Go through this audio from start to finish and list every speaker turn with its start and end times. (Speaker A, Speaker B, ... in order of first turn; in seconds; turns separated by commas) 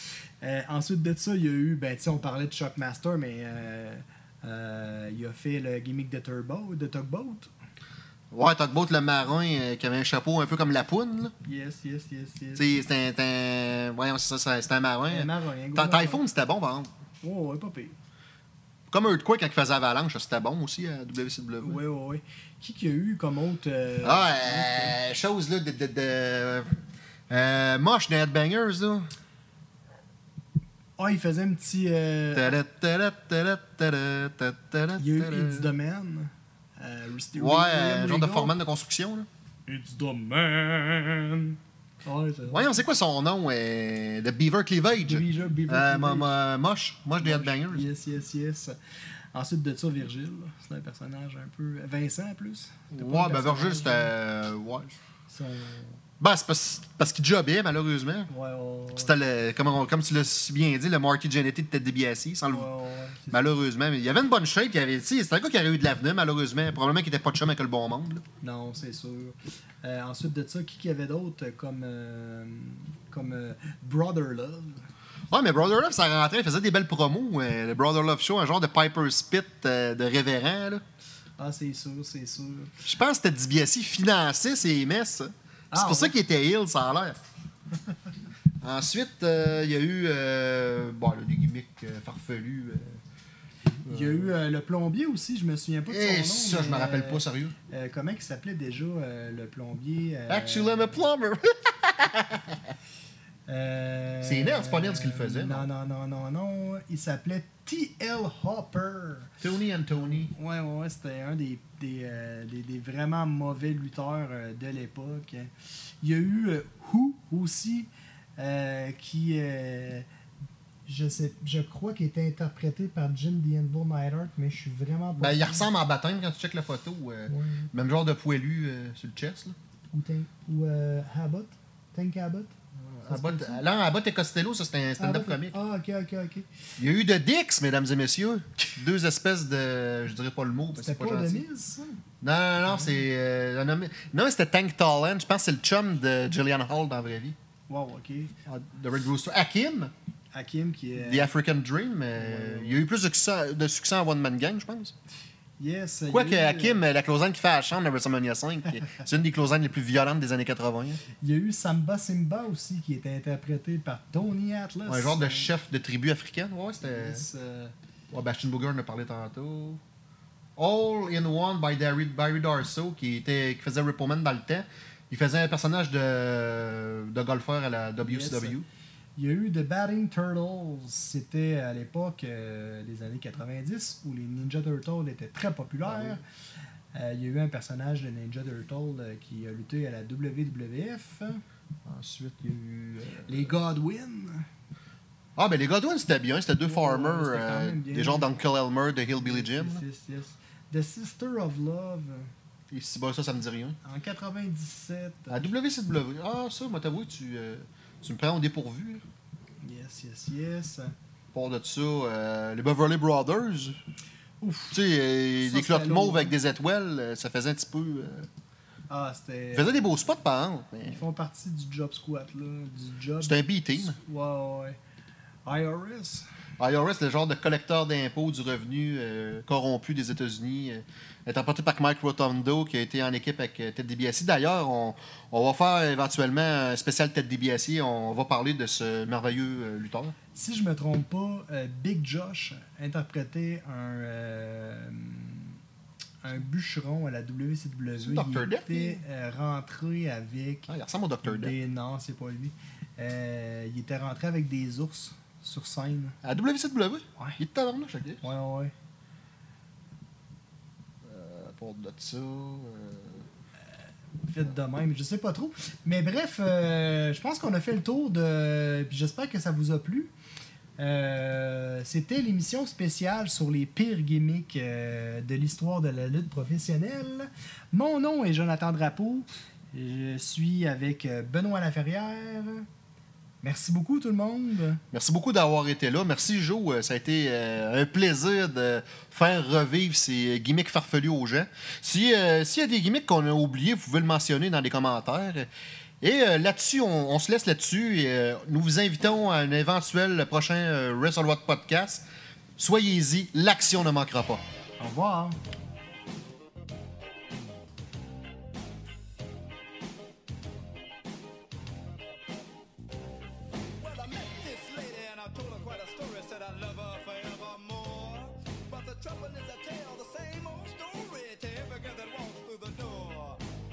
Speaker A: 0.4-7.5, Speaker B: 8.3-11.3, Speaker A: 11.4-12.8, Speaker B: 12.6-16.9, Speaker A: 15.1-16.2, Speaker A: 17.2-17.9, Speaker B: 18.9-21.8, Speaker A: 21.6-24.9, Speaker B: 24.0-26.7, Speaker B: 27.3-29.1, Speaker A: 31.0-32.5, Speaker B: 32.3-35.7, Speaker A: 35.0-38.5, Speaker B: 37.3-39.3, Speaker A: 39.7-42.7, Speaker B: 42.5-47.8, Speaker A: 45.0-46.3, Speaker A: 47.2-48.7, Speaker A: 49.3-54.1, Speaker B: 52.9-55.0, Speaker A: 55.3-56.0, Speaker B: 56.2-58.3, Speaker A: 58.3-59.1, Speaker B: 58.9-62.7, Speaker A: 62.5-63.6, Speaker B: 63.3-68.2, Speaker A: 68.4-74.8, Speaker B: 75.3-80.8, Speaker A: 81.4-82.7, Speaker B: 82.8-87.2, Speaker A: 85.7-86.2, Speaker B: 88.6-93.0, Speaker A: 93.8-101.0, Speaker B: 93.8-94.3, Speaker B: 95.9-97.5, Speaker B: 100.3-102.6, Speaker A: 103.5-109.3, Speaker B: 104.2-105.7, Speaker B: 109.4-110.3, Speaker A: 109.9-115.5, Speaker A: 116.0-120.0, Speaker A: 120.9-125.7, Speaker B: 125.2-129.6, Speaker A: 127.3-127.7, Speaker A: 129.9-132.5, Speaker B: 132.9-135.6, Speaker A: 133.1-133.6, Speaker A: 135.0-136.5, Speaker B: 136.8-141.4, Speaker A: 140.7-142.0, Speaker B: 142.2-147.3, Speaker A: 147.7-148.3, Speaker B: 148.4-149.9, Speaker A: 150.3-151.3, Speaker B: 151.0-154.9, Speaker A: 152.2-152.8, Speaker A: 155.6-156.8, Speaker B: 156.1-161.0, Speaker A: 161.2-165.5, Speaker B: 164.9-167.2, Speaker A: 166.8-167.7, Speaker B: 168.1-169.8, Speaker B: 170.6-178.7, Speaker A: 178.0-178.6, Speaker A: 179.2-186.2, Speaker B: 185.8-186.2, Speaker A: 186.9-191.4, Speaker B: 191.9-193.5, Speaker A: 193.2-194.5, Speaker B: 195.4-199.8, Speaker A: 196.6-198.3, Speaker A: 199.2-202.3, Speaker B: 202.7-203.8, Speaker A: 203.8-205.4, Speaker B: 205.3-209.0, Speaker A: 209.6-210.9, Speaker B: 211.3-213.8, Speaker A: 214.4-214.8, Speaker B: 214.7-218.3, Speaker A: 215.4-216.3, Speaker A: 218.9-220.0, Speaker B: 219.5-221.0, Speaker A: 220.8-224.8, Speaker B: 223.2-223.9, Speaker A: 225.4-226.2, Speaker B: 226.6-240.1, Speaker A: 240.3-245.6, Speaker A: 246.2-250.7, Speaker B: 248.0-249.0, Speaker B: 250.7-251.5, Speaker A: 251.2-256.1, Speaker B: 256.2-258.2, Speaker A: 258.2-258.7, Speaker B: 261.1-263.2, Speaker A: 264.3-270.1, Speaker A: 270.8-282.6, Speaker A: 283.4-284.8, Speaker B: 284.9-295.5, Speaker B: 296.0-302.0, Speaker B: 302.6-304.4, Speaker A: 304.8-305.4, Speaker C: 313.8-323.4